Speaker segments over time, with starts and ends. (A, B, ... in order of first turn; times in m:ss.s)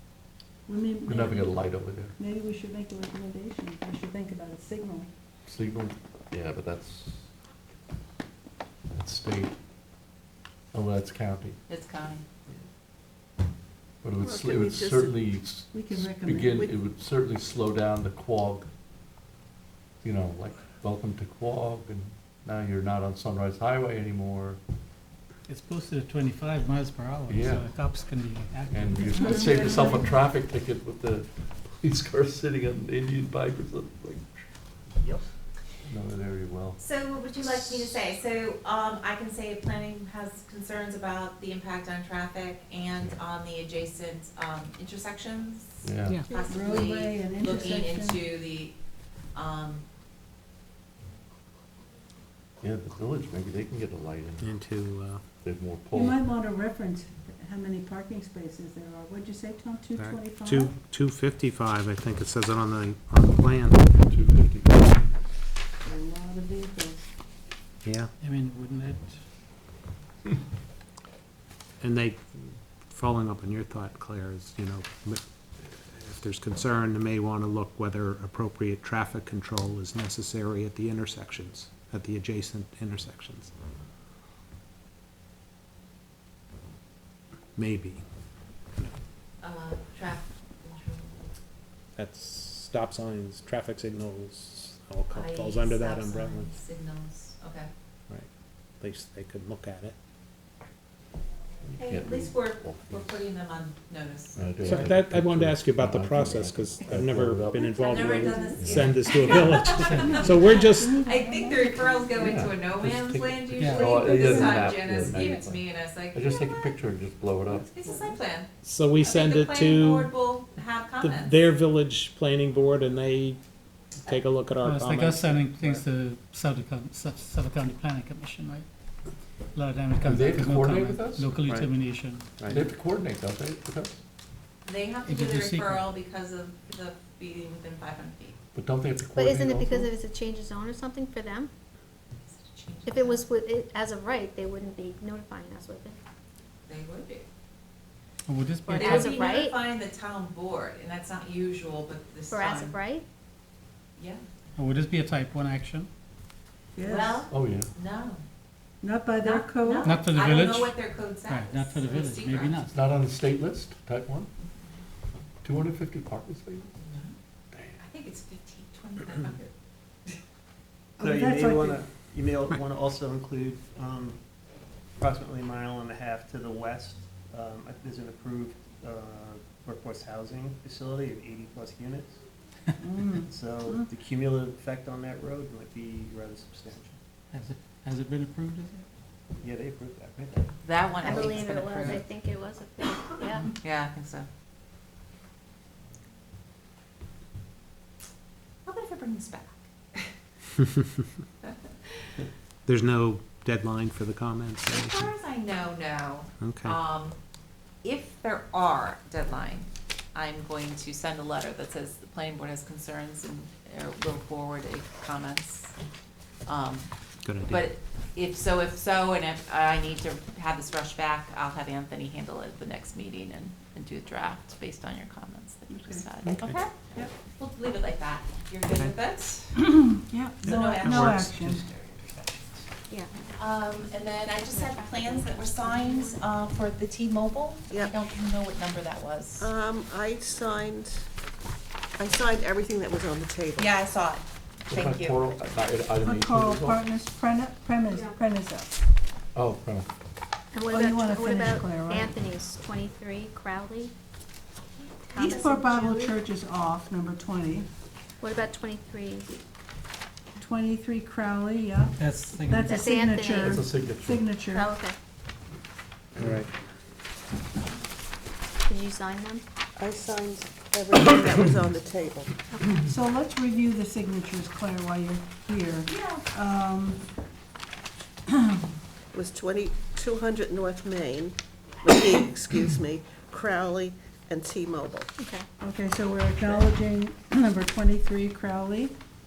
0:00.7-0:01.6 A
0:01.1-0:02.1 B
0:02.2-0:05.1 A
0:05.5-0:07.3 B
0:08.9-0:09.5 B
0:10.7-0:11.6 B
0:11.7-0:12.2 C
0:14.0-0:18.7 B
0:14.2-0:15.2 D
0:15.7-0:16.6 A
0:20.0-0:24.6 B
0:25.5-0:29.6 E
0:27.3-0:27.7 B
0:28.7-0:34.2 B
0:29.1-0:30.1 C
0:35.9-0:36.8 B
0:36.8-0:48.8 C
0:45.8-0:46.3 B
0:46.5-0:48.2 A
0:49.3-0:49.8 C
0:52.6-0:54.5 B
0:54.4-0:55.2 F
0:55.4-0:56.3 B
0:55.9-1:00.7 A
1:00.0-1:03.9 F
1:04.1-1:04.9 B
1:05.8-1:07.1 A
1:07.8-1:08.1 F
1:08.2-1:09.2 E
1:11.8-1:23.5 F
1:27.6-1:28.0 F
1:29.4-1:31.3 C
1:32.0-1:36.6 F
1:35.1-1:37.7 C
1:38.8-1:40.0 F
1:41.6-1:43.3 B
1:41.8-1:44.8 C
1:44.4-1:47.8 B
1:44.6-1:51.0 F
1:47.8-1:56.8 C
1:48.2-1:48.6 A
1:48.6-1:49.0 B
1:49.1-1:52.3 A
1:49.8-1:50.3 E
1:52.2-1:57.7 B
1:53.6-1:54.0 E
1:54.0-1:54.6 A
1:57.5-1:58.5 C
1:58.6-2:00.1 F
1:59.0-2:01.4 C
2:01.0-2:03.4 F
2:04.0-2:05.8 F
2:04.6-2:08.7 E
2:09.6-2:12.6 E
2:10.0-2:11.4 B
2:12.4-2:14.0 B
2:14.7-2:18.4 C
2:15.1-2:15.9 E
2:18.6-2:19.9 B
2:19.1-2:21.5 G
2:22.3-2:23.3 C
2:22.9-2:26.0 G
2:26.7-2:27.3 C
2:28.3-2:29.1 E
2:28.7-2:29.6 G
2:28.8-2:32.8 C
2:32.3-2:33.0 G
2:34.0-2:34.2 C
2:34.6-2:35.9 E
2:36.8-2:37.3 A
2:36.8-2:38.2 C
2:37.3-2:37.7 B
2:38.8-2:39.9 A
2:39.2-2:42.6 C
2:39.8-2:42.8 E
2:42.7-2:44.3 B
2:45.4-2:46.7 B
2:46.8-2:47.2 C
2:47.5-2:47.8 B
2:47.8-2:49.5 C
2:51.0-2:51.8 A
2:51.0-2:54.2 H
2:55.0-3:02.2 H
3:02.8-3:03.9 A
3:03.2-3:07.0 H
3:07.3-3:08.8 E
3:09.4-3:10.5 H
3:10.6-3:12.0 C
3:11.0-3:13.5 G
3:13.5-3:14.3 C
3:18.6-3:20.1 C
3:21.4-3:22.1 C
3:22.7-3:25.1 F
3:24.7-3:27.2 C
3:26.4-3:26.8 F
3:27.8-3:35.7 C
3:36.5-3:36.9 C
3:37.2-3:37.7 F
3:37.5-3:49.7 C
3:45.7-3:46.1 A
3:46.2-3:46.6 F
3:49.6-3:51.7 A
3:50.4-3:52.7 C
3:50.4-3:51.3 F
3:52.9-3:53.2 G
3:53.4-3:59.5 C
3:54.4-3:56.2 G
3:59.4-4:01.1 D
4:02.0-4:03.7 D
4:03.6-4:05.4 C
4:04.7-4:06.8 B
4:06.0-4:08.8 A
4:07.9-4:08.2 G
4:09.4-4:09.9 B
4:10.5-4:13.9 G
4:10.7-4:12.1 A
4:15.1-4:16.2 G
4:15.2-4:17.7 A
4:18.2-4:19.3 G
4:20.4-4:22.0 A
4:22.0-4:22.7 E
4:22.5-4:24.7 A
4:22.7-4:23.6 G
4:23.3-4:24.3 B
4:24.5-4:25.0 G
4:26.2-4:26.5 F
4:28.7-4:29.4 G
4:29.8-4:32.4 D
4:32.8-4:37.0 A
4:35.9-4:36.3 C
4:38.3-4:38.6 A
4:39.1-4:45.1 D
4:45.2-4:45.5 G
4:45.6-4:49.0 A
4:46.4-4:46.7 D